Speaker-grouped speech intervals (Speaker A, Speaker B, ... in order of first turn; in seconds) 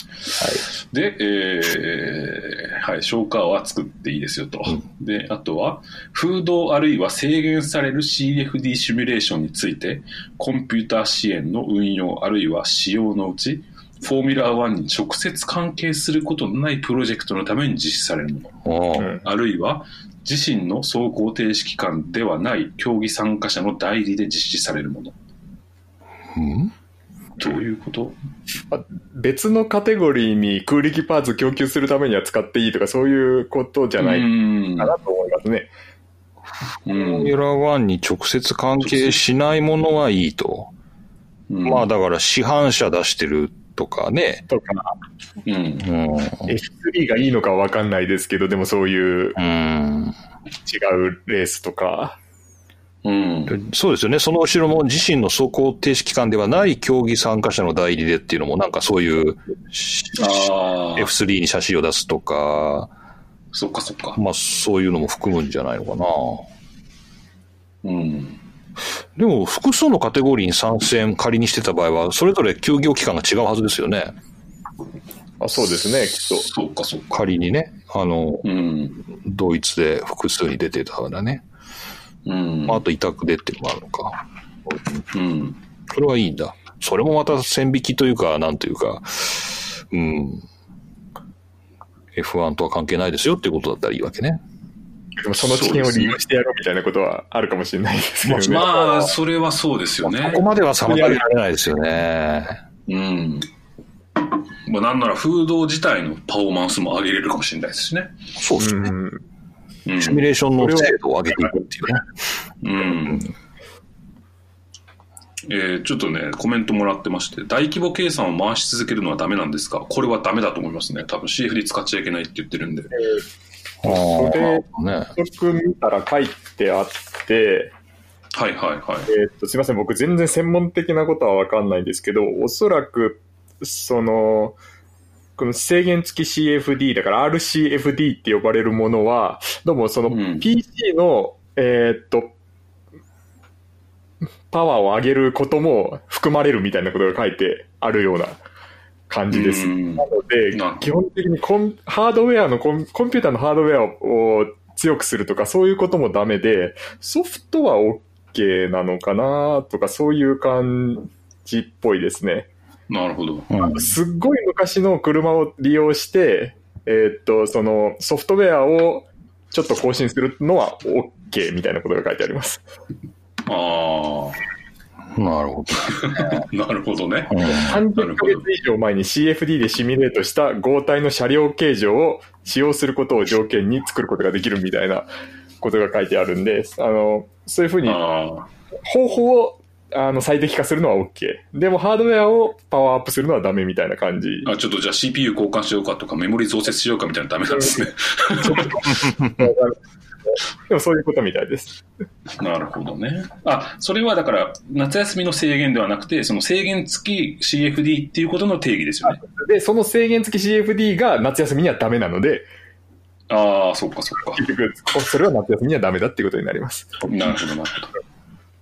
Speaker A: 0.4-0.7, 18.6-19.2, 26.3-26.7, 36.9-40.7, 41.6-44.4, 45.8-46.5, 49.4-50.1, 53.5-62.9, 64.2-66.4, 69.2-74.1, 77.1-78.5, 79.1-81.4, 82.7-85.0, 85.9-90.4, 92.1-94.4, 100.0-102.6, 108.4-108.9, 110.0-112.1, 123.8-125.1, 163.5-163.9, 175.1-176.4, 177.3-177.8, 199.0-199.3
Speaker B: 0.9-18.5, 19.2-25.1, 27.4-28.1, 34.0-34.9, 36.9-37.3, 38.8-39.1, 41.5-41.9, 45.5-45.8, 53.0-53.5, 60.2-61.1, 63.5-64.2, 67.8-68.4, 76.5-77.1, 78.4-79.0, 82.2-82.8, 85.1-85.6, 95.4-96.1, 98.3-100.4, 102.9-103.5, 104.7-108.1, 109.8-110.2, 112.6-113.2, 115.5-122.9, 128.3-129.1, 140.1-140.5, 149.3-150.9, 162.9-163.5, 173.5-174.4, 175.8-178.4, 187.8-188.5, 194.4-198.9, 202.4-209.2, 213.3-214.4, 217.1-217.9
Speaker C: 28.7-35.7, 44.5-44.9, 46.5-49.4, 50.6-52.2, 75.4-76.5, 95.2-99.1, 100.8-101.2, 108.6-109.2, 110.6-110.9, 122.9-123.2, 123.8-127.7, 129.1-134.6, 135.4-142.3, 144.5-148.4, 149.1-162.5, 163.6-172.6, 177.4-185.1, 185.6-188.0, 188.8-194.5, 197.5-197.8, 198.4-199.8, 200.3-201.8, 209.0-212.5, 214.3-217.0